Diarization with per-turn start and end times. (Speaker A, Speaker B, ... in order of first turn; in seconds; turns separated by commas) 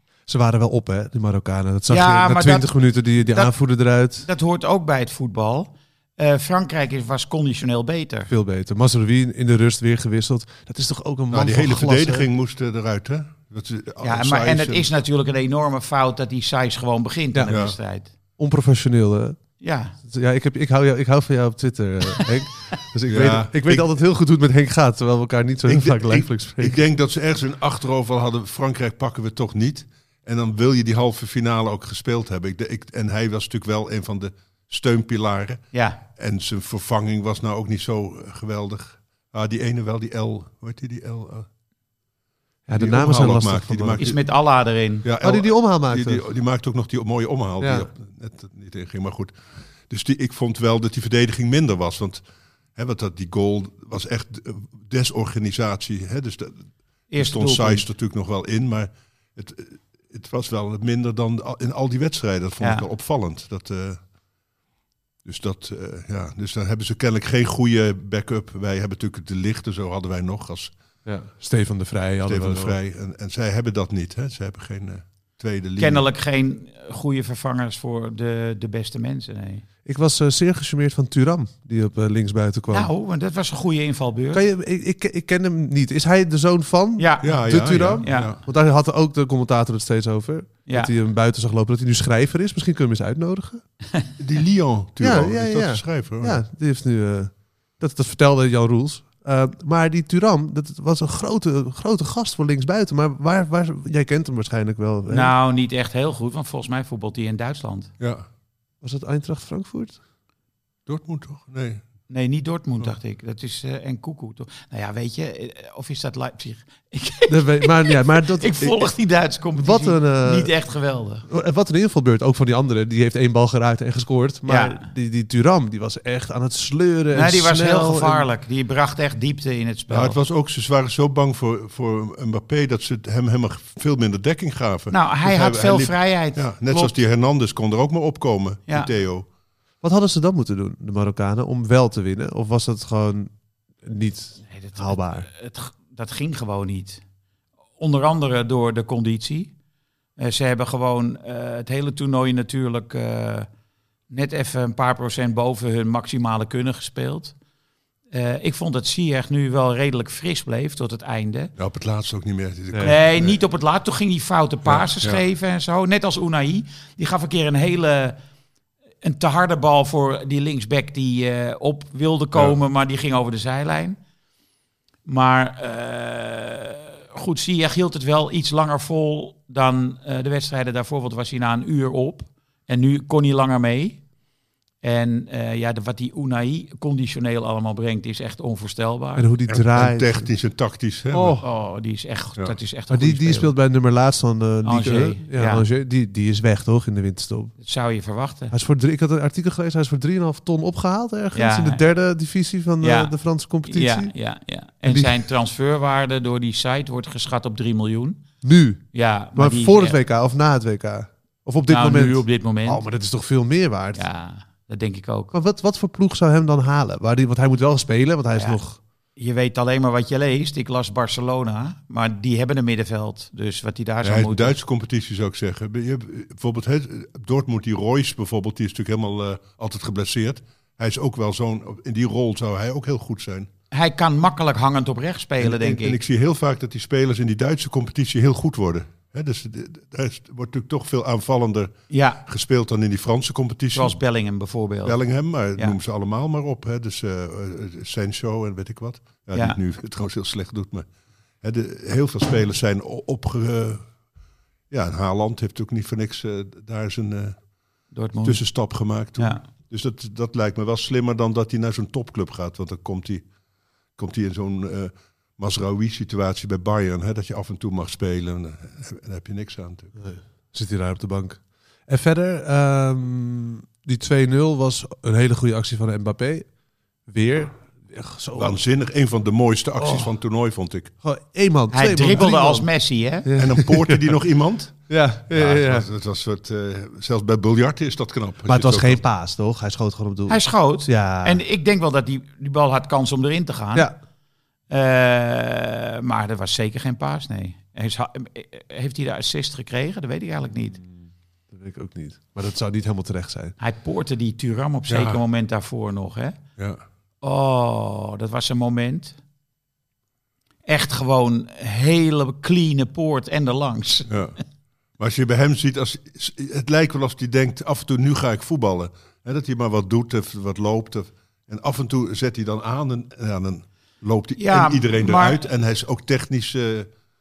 Speaker A: 0.3-4.3, Speaker B: 1.9-2.7, Speaker B: 4.2-8.3, Speaker A: 8.3-12.3, Speaker C: 11.3-14.9, Speaker B: 14.0-18.1, Speaker C: 17.5-17.8, Speaker A: 18.4-19.4, Speaker B: 19.6-19.9, Speaker A: 20.0-26.8, Speaker C: 23.1-23.9, Speaker C: 25.7-41.5, Speaker B: 35.7-36.0, Speaker A: 42.7-44.1, Speaker C: 42.7-44.2, Speaker B: 44.0-45.0, Speaker C: 45.0-49.3, Speaker A: 45.2-46.2, Speaker A: 47.6-47.9, Speaker C: 49.9-52.2, Speaker C: 52.8-64.0, Speaker B: 57.1-57.8, Speaker B: 62.6-62.9, Speaker C: 65.2-70.7, Speaker A: 71.0-72.8, Speaker C: 72.2-76.0, Speaker B: 75.8-79.6, Speaker A: 79.8-82.9, Speaker B: 82.7-84.4, Speaker A: 84.3-93.6, Speaker B: 87.0-88.3, Speaker C: 87.2-88.4, Speaker B: 90.7-90.9, Speaker C: 94.2-96.4, Speaker A: 95.0-105.3, Speaker B: 105.1-107.9, Speaker C: 108.0-108.2, Speaker A: 108.8-110.0, Speaker C: 110.9-111.8, Speaker B: 112.1-121.2, Speaker A: 117.3-118.9, Speaker A: 119.5-120.5, Speaker A: 121.3-128.3, Speaker B: 124.5-124.8, Speaker B: 127.1-130.2, Speaker C: 129.9-139.2, Speaker B: 134.9-136.9, Speaker A: 139.8-145.3, Speaker B: 144.5-147.0, Speaker B: 147.8-149.5, Speaker B: 150.2-153.5, Speaker B: 154.1-157.3, Speaker B: 158.1-161.5, Speaker C: 161.6-163.4, Speaker B: 162.8-168.2, Speaker C: 164.7-165.2, Speaker B: 169.0-174.0, Speaker B: 175.1-184.0, Speaker B: 184.8-189.3, Speaker A: 189.2-190.3, Speaker C: 189.5-191.4, Speaker A: 191.1-191.4, Speaker B: 191.4-193.5, Speaker A: 192.9-197.5, Speaker B: 194.6-195.6, Speaker B: 197.6-198.5, Speaker A: 198.5-204.1, Speaker B: 201.3-201.8, Speaker B: 202.8-203.1, Speaker B: 203.7-208.2, Speaker A: 204.8-205.2, Speaker A: 208.4-208.8, Speaker B: 208.9-210.0, Speaker A: 209.3-214.1, Speaker B: 211.7-212.8, Speaker B: 213.9-215.3, Speaker A: 215.3-218.8, Speaker B: 218.3-218.6, Speaker B: 219.2-224.6, Speaker C: 224.0-233.5, Speaker B: 233.7-236.0, Speaker C: 235.4-241.7, Speaker B: 241.9-242.2, Speaker C: 242.2-244.0, Speaker B: 243.7-245.0, Speaker C: 244.8-250.9, Speaker C: 251.4-253.8, Speaker C: 254.7-257.4, Speaker B: 257.9-258.4, Speaker C: 258.2-263.2, Speaker C: 264.0-269.9, Speaker A: 270.0-276.5, Speaker A: 277.1-278.6, Speaker C: 278.4-280.9, Speaker A: 279.8-280.1, Speaker A: 281.0-282.7, Speaker B: 281.7-283.3, Speaker A: 283.2-284.2, Speaker C: 283.4-289.0, Speaker A: 284.9-285.9, Speaker A: 288.4-291.4, Speaker B: 290.3-293.9, Speaker B: 294.7-300.8, Speaker A: 301.5-303.5, Speaker B: 303.6-306.4, Speaker C: 304.9-305.2, Speaker B: 307.2-309.1, Speaker B: 310.6-314.1, Speaker C: 314.1-314.4, Speaker C: 315.0-326.9, Speaker B: 324.4-325.4